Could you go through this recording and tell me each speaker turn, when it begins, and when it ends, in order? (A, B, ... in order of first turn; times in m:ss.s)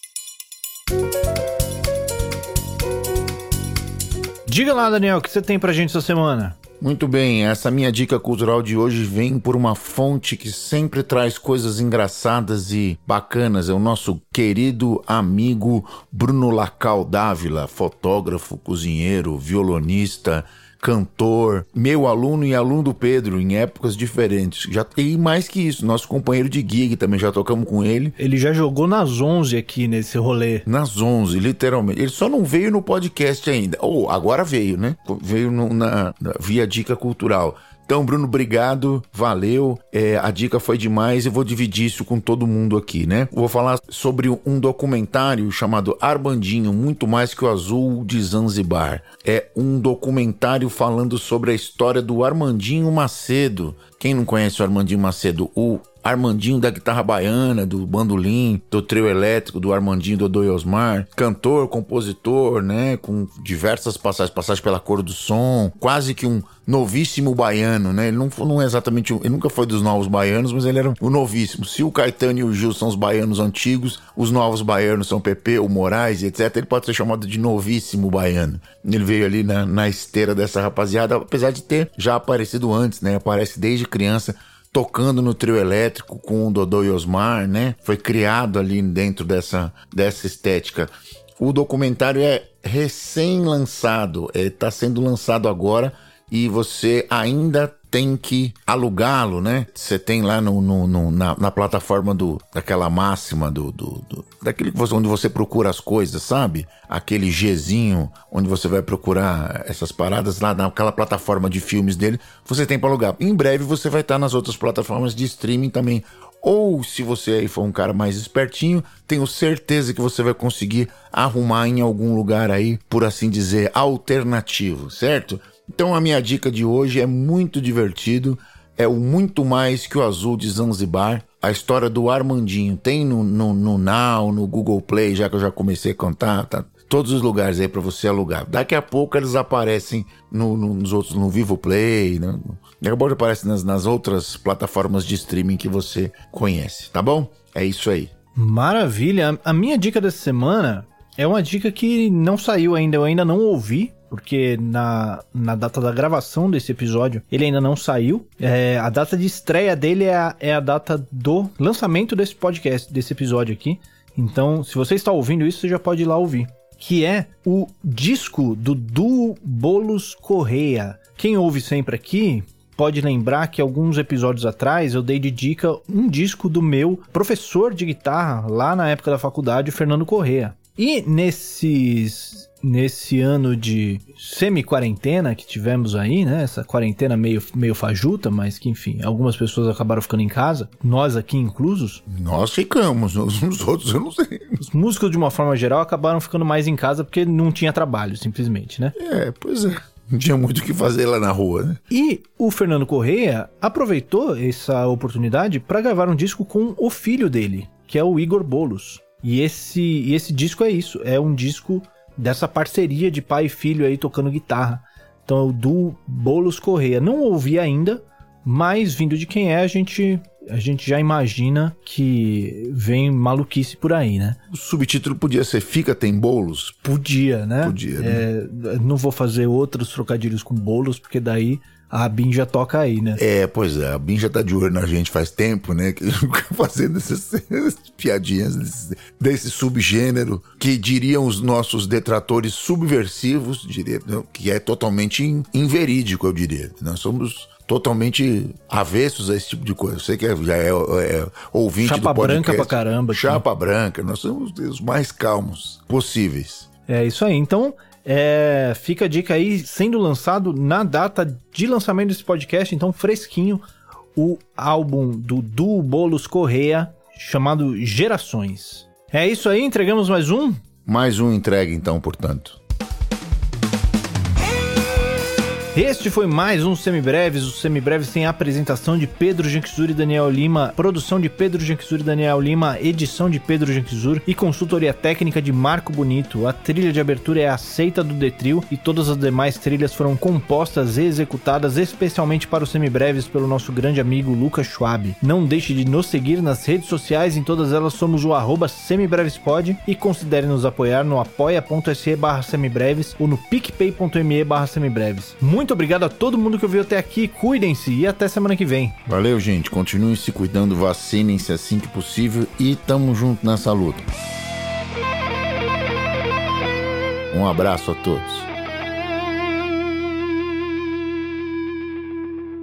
0:04.5-0:06.6 A
0:06.8-0:28.2 B
0:28.2-0:30.7 A
0:30.7-2:28.1 B
2:28.4-3:12.0 A
3:12.1-3:14.7 B
3:14.6-3:19.0 A
3:19.0-3:21.8 B
3:21.9-3:44.4 A
3:44.5-3:46.8 B
3:46.8-3:53.2 A
3:47.6-3:48.3 B
3:53.2-4:16.7 B
4:11.8-4:13.4 A
4:16.9-4:23.6 A
4:24.2-4:30.6 A
4:30.8-4:32.6 B
4:35.7-5:09.0 A
5:09.1-5:14.1 B
5:17.3-5:18.5 B